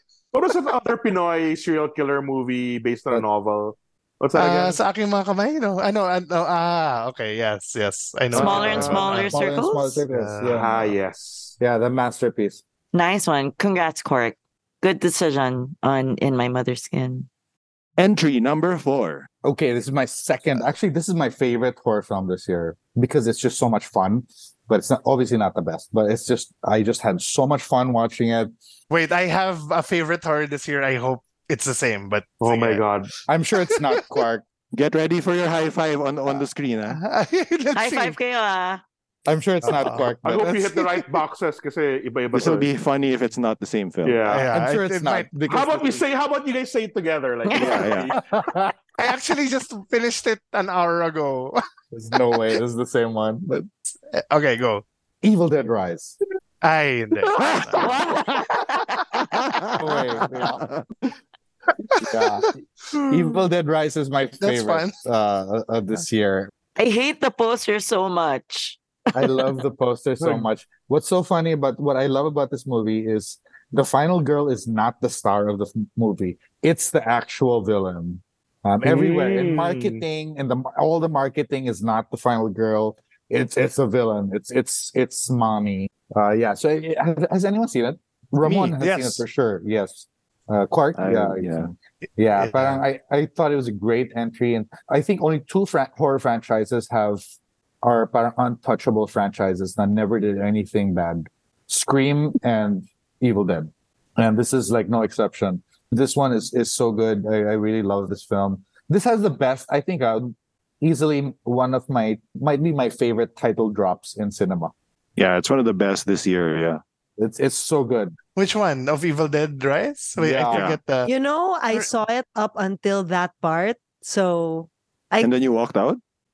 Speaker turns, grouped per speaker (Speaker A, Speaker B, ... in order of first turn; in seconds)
Speaker A: 0.3-4.8, 8.6-9.2, 10.5-11.6, 32.4-33.1, 40.2-42.7, 44.0-44.5, 45.5-48.2, 70.2-70.5, 78.8-80.0
Speaker B: 4.3-9.3, 10.1-10.6, 28.9-32.9, 33.7-34.2, 36.9-38.2, 39.6-41.0, 44.3-45.3, 49.0-51.6, 54.1-54.9, 56.6-57.9, 61.9-62.5, 64.4-65.0, 92.3-92.8, 118.4-121.1
Speaker C: 8.3-10.0, 12.9-17.3, 37.8-38.8, 47.5-47.9, 57.8-58.9, 66.8-68.8
Speaker D: 8.3-9.1, 18.0-19.3, 34.7-37.0, 42.3-44.3, 47.5-48.1, 57.4-58.3, 59.3-60.9, 88.4-89.2, 91.0-91.7, 115.2-116.8, 120.5-120.8, 125.2-126.0
Speaker E: 8.7-11.0, 11.6-12.6, 19.4-28.5, 33.3-34.4, 39.3-40.6, 44.4-46.0, 48.1-48.7, 51.9-53.7, 55.2-56.2, 59.8-60.6, 62.0-66.5, 69.2-97.2, 97.8-114.7, 117.2-118.2, 120.2-120.6
Speaker F: 121.1-125.3